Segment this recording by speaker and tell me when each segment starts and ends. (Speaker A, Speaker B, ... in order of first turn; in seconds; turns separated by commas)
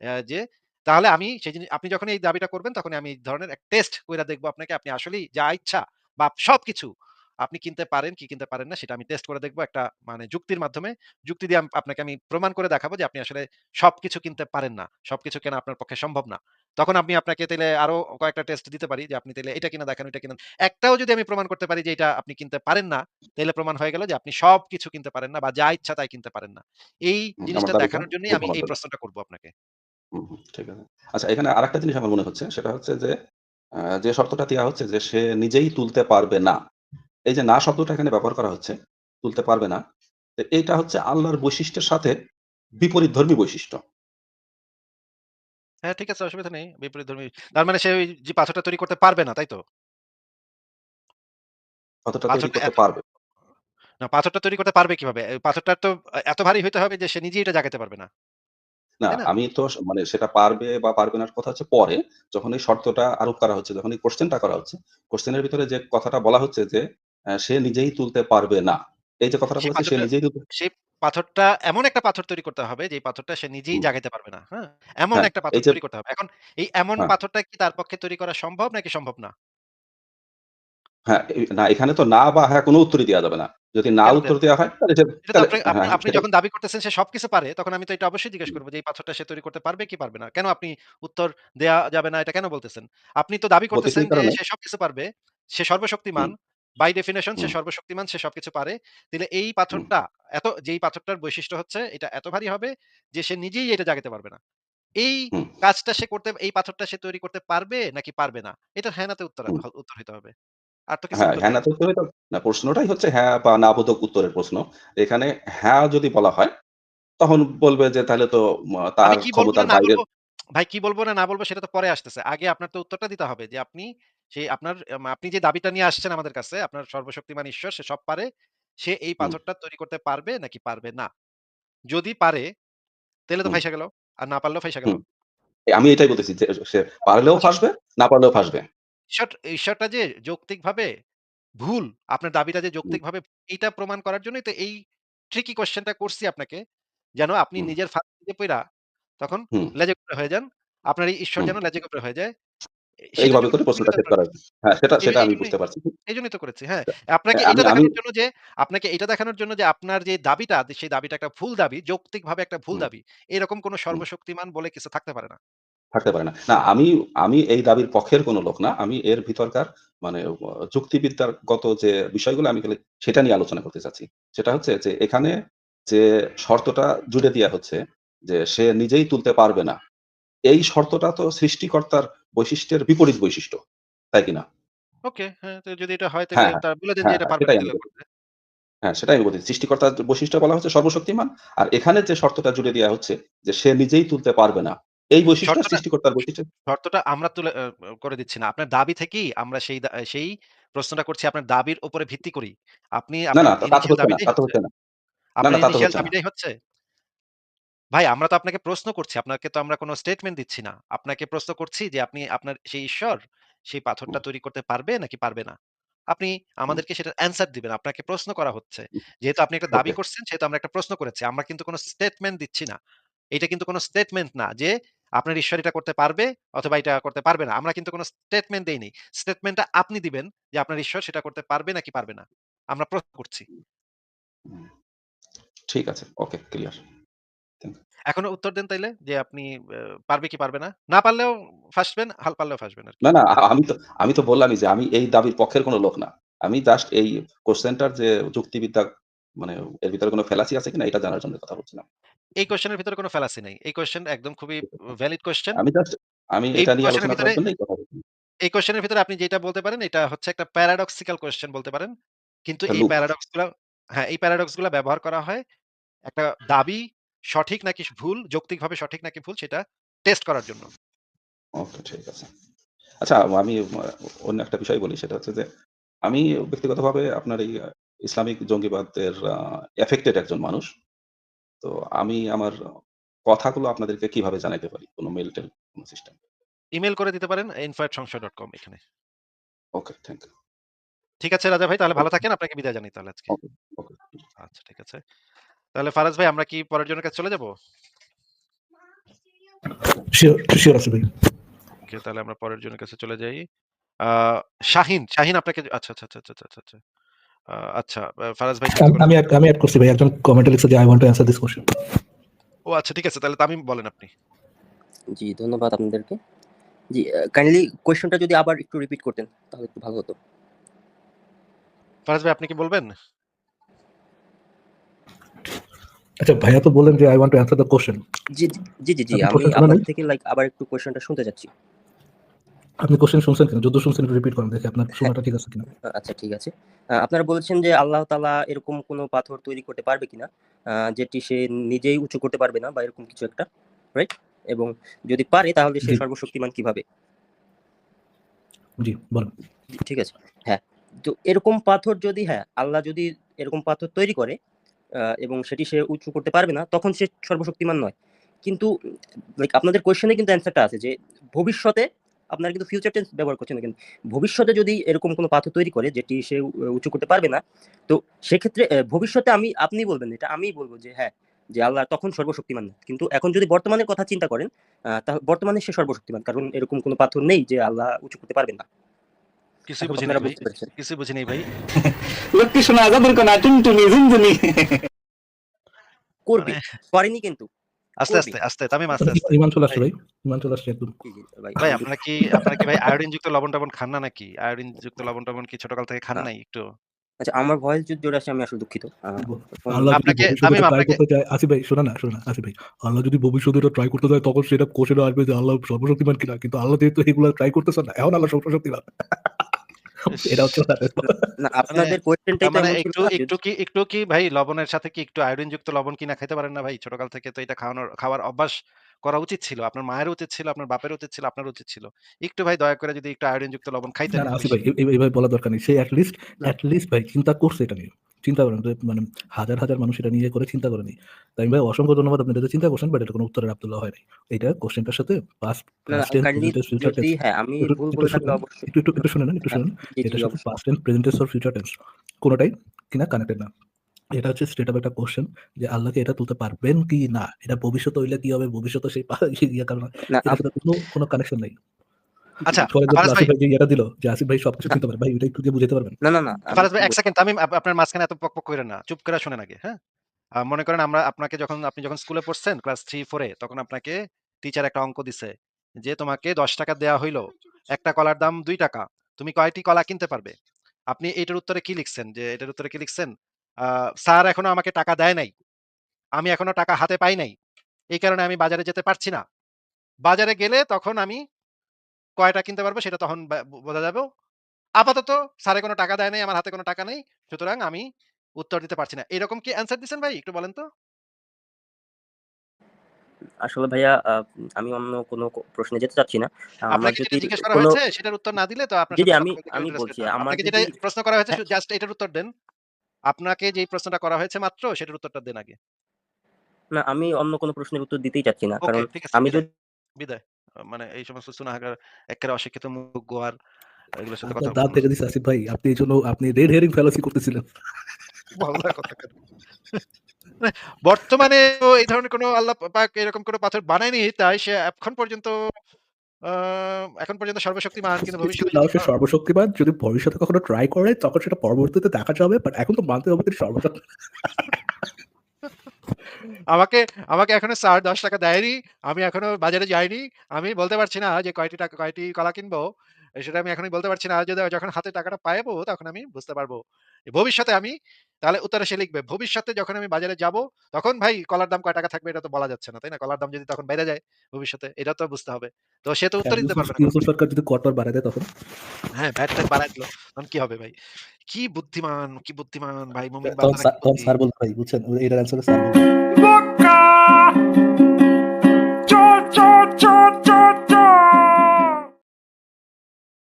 Speaker A: 0.2-6.9, Speaker A: 7.5-29.5, Speaker B: 27.5-28.7, Speaker B: 30.1-33.1, Speaker B: 33.8-36.6, Speaker B: 37.3-39.8, Speaker B: 40.4-42.1, Speaker B: 42.8-43.8, Speaker A: 45.9-49.6, Speaker B: 52.1-53.0, Speaker A: 52.3-52.8, Speaker A: 54.0-58.1, Speaker B: 59.0-66.8, Speaker B: 67.4-70.4, Speaker A: 69.6-79.3, Speaker B: 75.2-75.8, Speaker B: 81.1-86.2, Speaker A: 84.0-84.3, Speaker A: 85.3-104.4, Speaker B: 93.8-94.3, Speaker A: 105.0-110.3, Speaker A: 110.9-111.7, Speaker B: 111.2-116.5, Speaker B: 117.2-120.0, Speaker A: 119.0-120.0, Speaker A: 120.5-128.3, Speaker A: 128.8-131.1, Speaker A: 131.9-132.5, Speaker A: 133.3-135.0, Speaker B: 135.7-138.7, Speaker A: 139.1-140.9, Speaker A: 141.6-144.8, Speaker A: 145.3-146.6, Speaker A: 147.2-148.6, Speaker A: 149.2-152.3, Speaker A: 153.1-154.2, Speaker B: 153.2-155.9, Speaker A: 155.0-155.5, Speaker A: 156.1-165.4, Speaker B: 157.4-157.9, Speaker B: 165.9-175.3, Speaker B: 175.9-179.8, Speaker B: 180.5-183.6, Speaker B: 184.1-184.4, Speaker A: 185.1-188.0, Speaker B: 186.3-187.8, Speaker B: 188.8-196.5, Speaker A: 195.5-195.8, Speaker A: 196.7-197.5, Speaker A: 198.0-204.5, Speaker B: 203.3-204.7, Speaker A: 205.4-206.5, Speaker B: 205.4-206.1, Speaker A: 207.9-213.2, Speaker A: 213.7-215.6, Speaker A: 216.1-222.8, Speaker A: 223.3-233.5, Speaker B: 235.7-236.8, Speaker A: 238.1-239.5, Speaker A: 240.1-243.0, Speaker B: 243.0-248.9, Speaker B: 249.4-251.8, Speaker A: 252.4-255.6, Speaker B: 255.6-258.0, Speaker A: 256.6-257.4, Speaker A: 258.5-261.9, Speaker A: 262.5-265.4, Speaker A: 266.1-266.8, Speaker A: 267.3-270.7, Speaker B: 271.6-272.3, Speaker B: 273.0-275.5, Speaker B: 276.1-280.7, Speaker B: 281.6-282.5, Speaker B: 283.3-286.1, Speaker A: 286.8-288.8, Speaker B: 289.8-290.3, Speaker A: 291.2-293.4, Speaker B: 293.3-294.0, Speaker A: 294.4-295.0, Speaker A: 295.8-297.5, Speaker C: 299.8-301.1, Speaker A: 301.9-303.4, Speaker A: 304.1-306.8, Speaker A: 307.5-309.2, Speaker C: 308.7-311.7, Speaker A: 312.7-314.1, Speaker D: 315.1-316.2, Speaker D: 316.9-320.1, Speaker A: 322.1-322.9, Speaker C: 326.2-328.0, Speaker D: 328.3-331.5, Speaker C: 329.1-329.8, Speaker C: 332.8-335.7, Speaker D: 335.9-343.4, Speaker D: 344.0-346.8, Speaker C: 348.8-349.3, Speaker D: 349.7-354.3, Speaker D: 355.2-357.9, Speaker D: 359.4-378.6, Speaker A: 379.7-381.5, Speaker D: 379.8-380.7, Speaker E: 381.8-384.8, Speaker D: 386.3-387.5, Speaker A: 386.4-386.6, Speaker A: 388.0-389.8, Speaker D: 388.1-388.3, Speaker C: 389.0-390.9, Speaker D: 391.0-391.9, Speaker A: 391.6-396.6, Speaker C: 392.3-392.8, Speaker D: 397.2-400.0, Speaker C: 399.2-409.5, Speaker A: 399.9-401.0, Speaker C: 410.0-411.3, Speaker A: 410.1-410.4, Speaker D: 411.4-413.3, Speaker A: 411.7-418.5, Speaker A: 419.0-424.6, Speaker C: 424.1-437.1, Speaker D: 435.9-438.7, Speaker C: 437.6-441.7, Speaker D: 439.5-440.5, Speaker C: 442.2-443.5, Speaker C: 444.2-451.6, Speaker D: 450.1-450.4, Speaker A: 452.5-453.3, Speaker C: 452.6-456.0, Speaker D: 456.0-456.9, Speaker A: 456.5-459.8, Speaker A: 460.4-470.3, Speaker A: 470.9-473.1, Speaker A: 473.7-475.3, Speaker A: 476.2-477.3, Speaker A: 477.9-479.2, Speaker A: 480.1-481.2, Speaker A: 482.2-484.1, Speaker A: 484.8-487.8, Speaker A: 488.4-490.6, Speaker D: 493.4-497.8, Speaker A: 496.8-502.3, Speaker D: 498.9-500.7, Speaker A: 503.1-505.6, Speaker D: 506.8-509.4, Speaker A: 508.6-513.4, Speaker A: 514.0-514.8, Speaker C: 514.2-517.5, Speaker A: 518.4-519.1, Speaker A: 520.4-525.3, Speaker A: 526.3-528.9, Speaker C: 528.0-534.5, Speaker A: 536.5-542.7, Speaker A: 543.2-546.6, Speaker A: 547.1-557.0, Speaker C: 556.2-558.2, Speaker A: 559.0-560.8, Speaker A: 561.3-564.1, Speaker C: 563.2-565.9, Speaker A: 566.1-567.5, Speaker A: 568.9-571.9